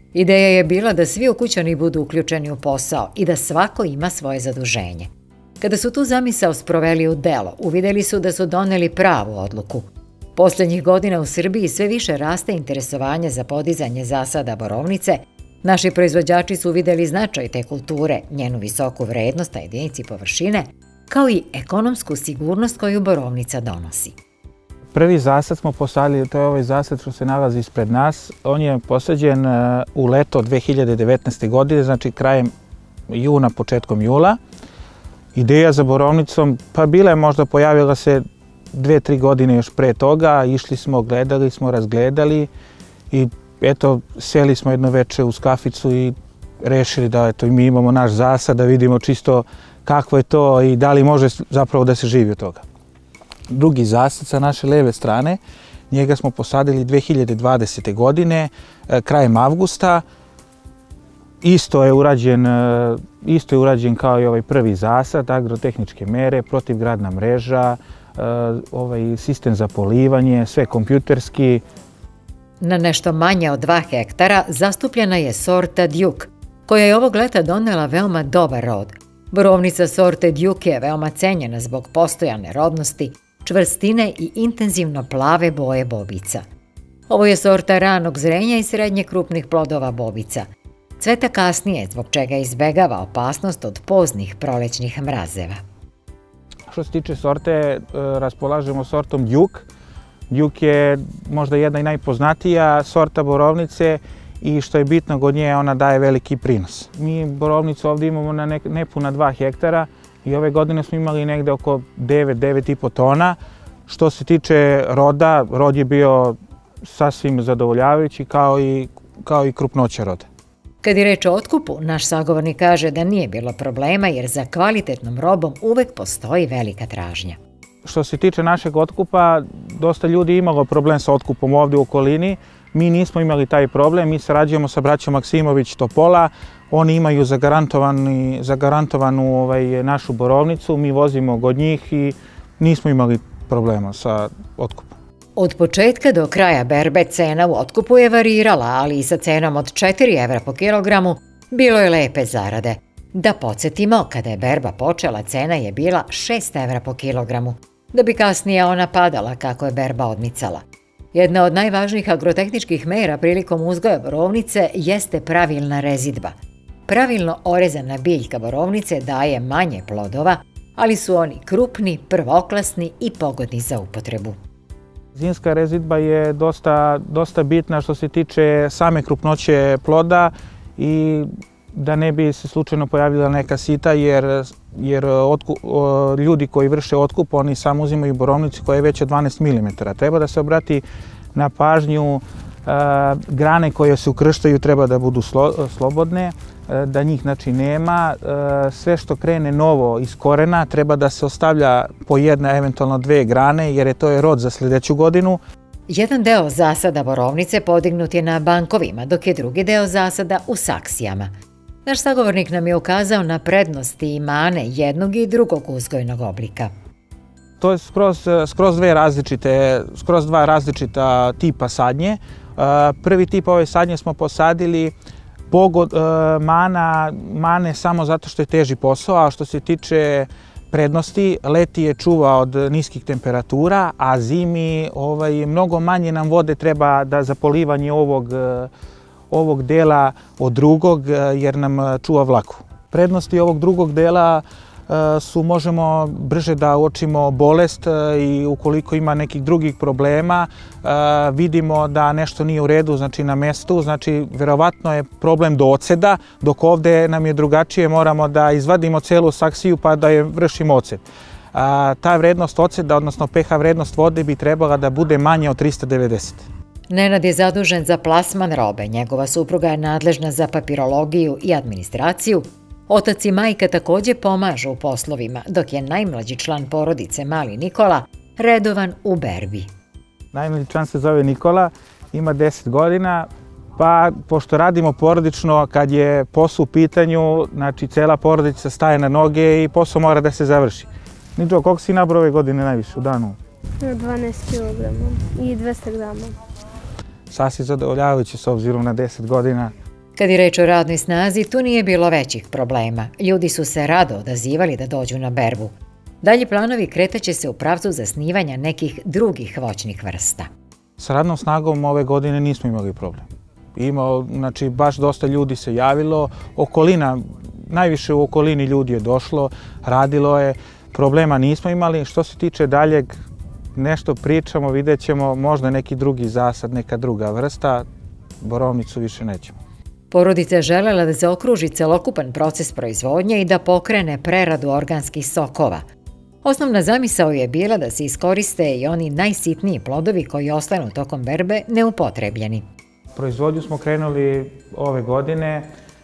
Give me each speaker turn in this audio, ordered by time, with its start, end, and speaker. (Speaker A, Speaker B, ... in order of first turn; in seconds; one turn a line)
Speaker A: 0.1-24.2
Speaker B: 24.9-32.5
Speaker B: 33.1-34.4
Speaker B: 35.3-38.2
Speaker B: 38.7-42.5
Speaker B: 43.1-52.6
Speaker B: 53.5-60.0
Speaker B: 61.4-71.6
Speaker A: 72.6-86.4
Speaker A: 87.1-90.5
Speaker A: 91.0-95.6
Speaker B: 96.7-99.7
Speaker B: 100.3-113.4
Speaker B: 113.9-120.3
Speaker A: 120.8-127.4
Speaker B: 127.8-144.9
Speaker A: 145.4-166.3
Speaker A: 166.9-174.4
Speaker B: 175.1-190.8
Speaker B: 191.3-205.4
Speaker A: 205.9-211.3
Speaker A: 211.9-216.7
Speaker B: 217.6-224.9
Speaker B: 225.5-238.7
Speaker B: 239.3-261.0
Speaker B: 261.5-266.5
Speaker A: 266.9-279.7
Speaker B: 280.3-293.4
Speaker C: 293.8-296.4
Speaker B: 297.3-299.7
Speaker A: 300.2-310.5
Speaker B: 311.0-313.2
Speaker B: 313.8-323.1
Speaker B: 323.8-327.9
Speaker B: 328.4-329.5
Speaker A: 330.1-335.8
Speaker A: 336.4-342.6
Speaker B: 343.2-345.7